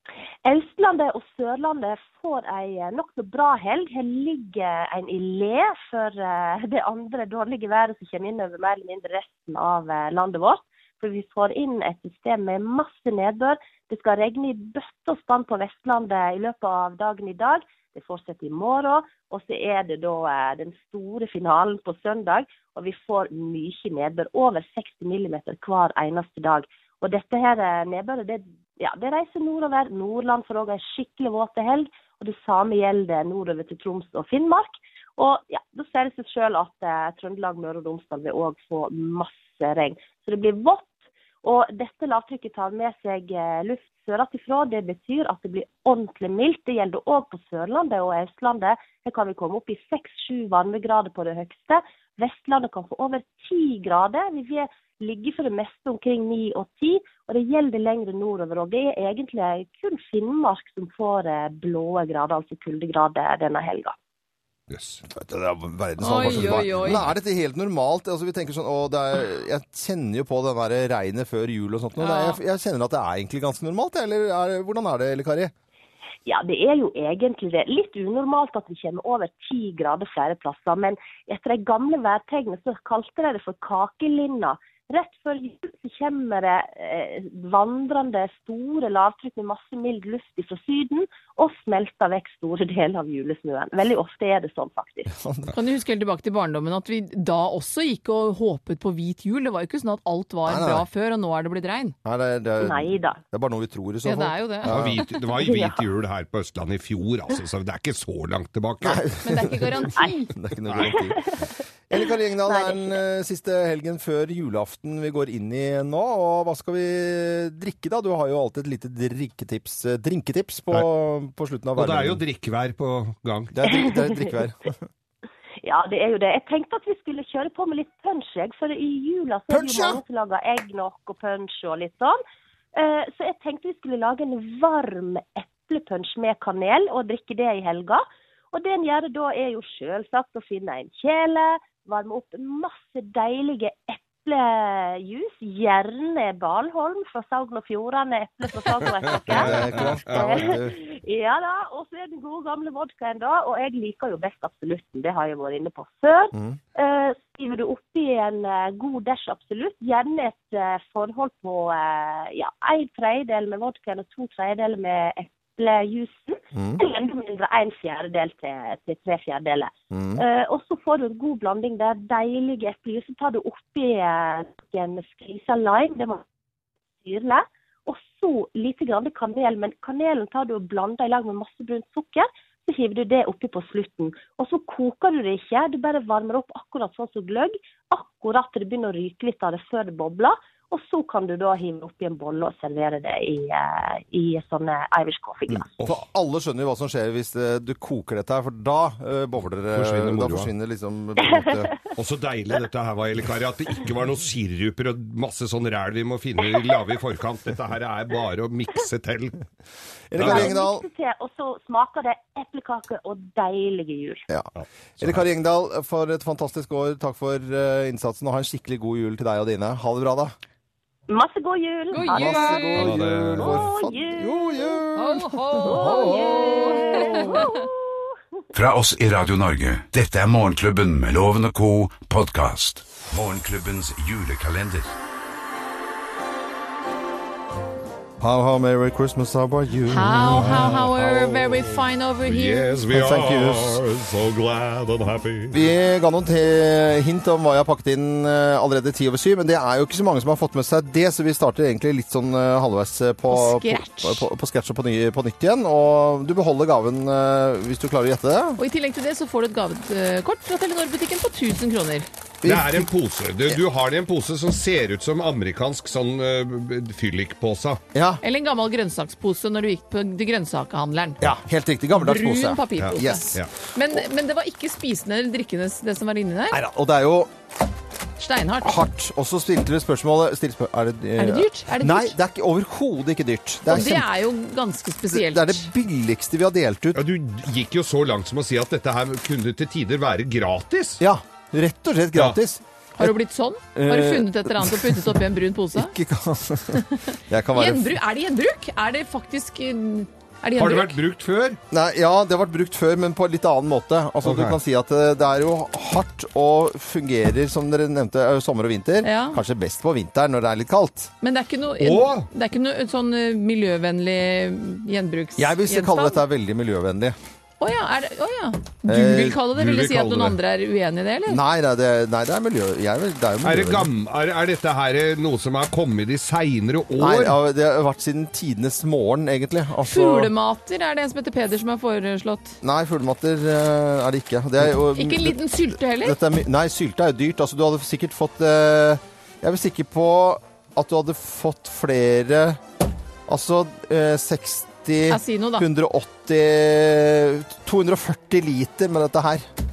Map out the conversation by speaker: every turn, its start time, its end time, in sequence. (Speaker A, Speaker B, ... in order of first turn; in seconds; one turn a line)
Speaker A: 0.5-64.0
Speaker B: 64.7-65.0
Speaker C: 65.1-75.5
Speaker D: 66.0-67.1
Speaker B: 66.3-66.6
Speaker D: 72.0-72.4
Speaker A: 76.3-95.1
Speaker C: 95.1-95.5
Speaker D: 95.5-102.0
Speaker C: 100.5-100.9
Speaker C: 102.0-105.0
Speaker A: 102.6-103.2
Speaker D: 104.0-104.8
Speaker B: 104.7-109.1
Speaker A: 105.4-105.8
Speaker C: 108.8-111.3
Speaker D: 109.2-110.3
Speaker B: 110.7-111.0
Speaker C: 111.9-122.2
Speaker A: 111.9-113.0
Speaker B: 121.8-123.5
Speaker C: 123.5-124.8
Speaker A: 123.7-124.3
Speaker A: 125.6-132.2
Speaker C: 129.5-130.0
Speaker A: 132.8-176.2
Speaker B: 149.1-150.6
Speaker C: 149.3-150.8
Speaker C: 166.6-166.8
Speaker C: 169.9-170.2
Speaker A: 177.0-195.7
Speaker C: 195.5-201.7
Speaker B: 199.7-200.5
Speaker B: 201.9-209.4
Speaker C: 210.1-210.9
Speaker B: 210.2-210.5
Speaker A: 210.2-214.2
Speaker C: 214.3-220.4
Speaker B: 214.6-215.2
Speaker A: 221.1-224.8
Speaker D: 221.9-222.9
Speaker C: 222.1-227.5
Speaker B: 222.8-223.7
Speaker D: 224.9-227.6
Speaker A: 225.6-228.1
Speaker E: 228.6-234.9
Speaker C: 238.2-240.8
Speaker D: 239.9-242.8
Speaker B: 240.2-245.6
Speaker C: 242.9-243.8
Speaker C: 245.5-258.6
Speaker D: 253.3-254.3
Speaker D: 258.6-262.1
Speaker C: 262.4-262.9
Speaker B: 262.4-267.8
Speaker C: 267.9-268.2
Speaker D: 268.2-271.3
Speaker C: 271.2-273.4
Speaker D: 271.9-276.6
Speaker B: 272.8-273.5
Speaker C: 276.5-277.3
Speaker D: 278.2-278.7
Speaker C: 278.6-284.1
Speaker D: 281.2-282.1
Speaker D: 283.7-285.7
Speaker C: 285.1-287.0
Speaker B: 286.9-291.0
Speaker C: 291.0-293.1
Speaker D: 293.0-295.9
Speaker C: 293.7-295.2
Speaker C: 295.7-298.0
Speaker D: 296.8-300.9
Speaker B: 300.6-301.6
Speaker C: 301.7-311.1
Speaker B: 304.2-304.6
Speaker D: 309.0-309.4
Speaker D: 311.2-316.2
Speaker B: 311.8-312.3
Speaker C: 315.4-317.2
Speaker D: 317.6-321.4
Speaker C: 318.9-319.4
Speaker B: 319.5-320.4
Speaker C: 321.3-323.9
Speaker B: 323.4-327.4
Speaker C: 327.0-330.3
Speaker D: 329.8-332.6
Speaker C: 332.6-342.6
Speaker D: 334.9-336.2
Speaker C: 343.3-349.5
Speaker D: 345.1-345.7